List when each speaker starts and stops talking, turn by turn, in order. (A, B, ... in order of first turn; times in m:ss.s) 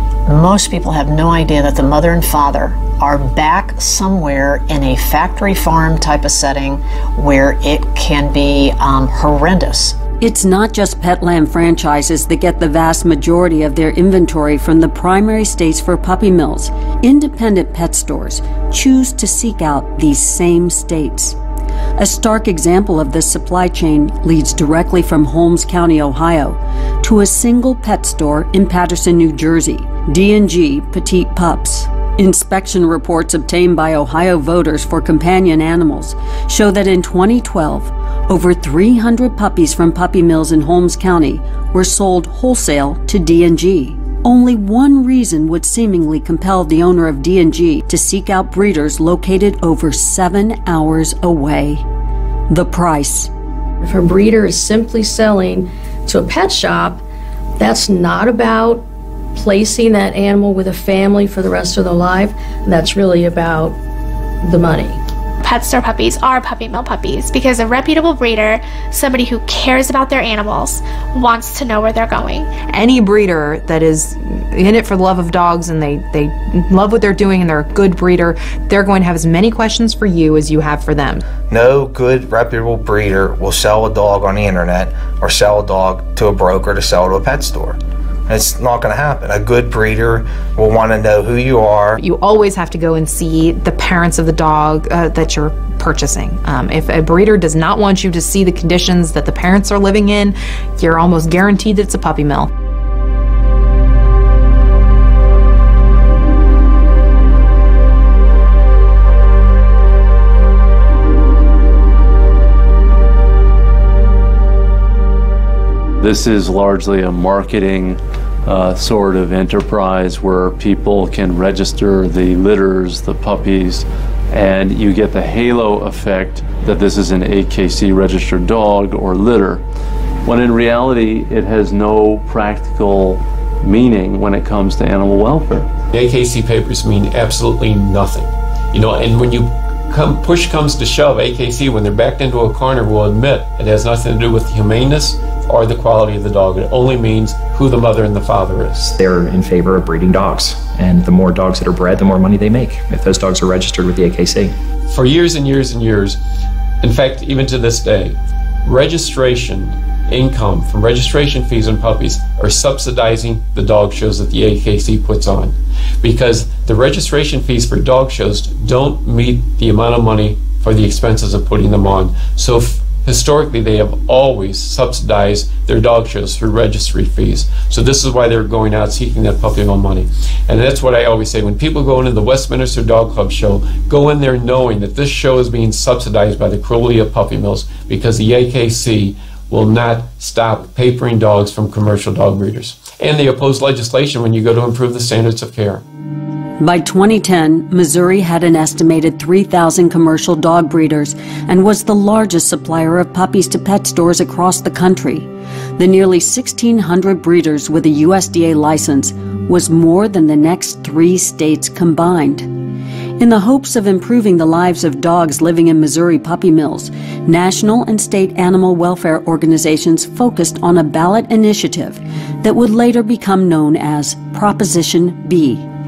0:00.3-0:10.0 A
0:10.2-0:21.4 B
0:22.0-0:51.8 B
0:52.5-0:53.3 B
0:53.8-0:57.0 C
0:57.6-1:03.8 C
1:04.4-1:05.0 C
1:05.4-1:12.5 D
1:12.7-1:21.2 E
1:21.5-1:32.0 F
1:32.0-1:42.5 E
1:56.0-2:09.6 G
2:10.2-2:15.7 G
2:15.9-2:28.8 H
2:28.8-2:34.5 I
2:34.9-2:36.2 H
2:36.8-3:15.8 H
3:16.6-3:32.5 B
3:33.2-3:45.7 B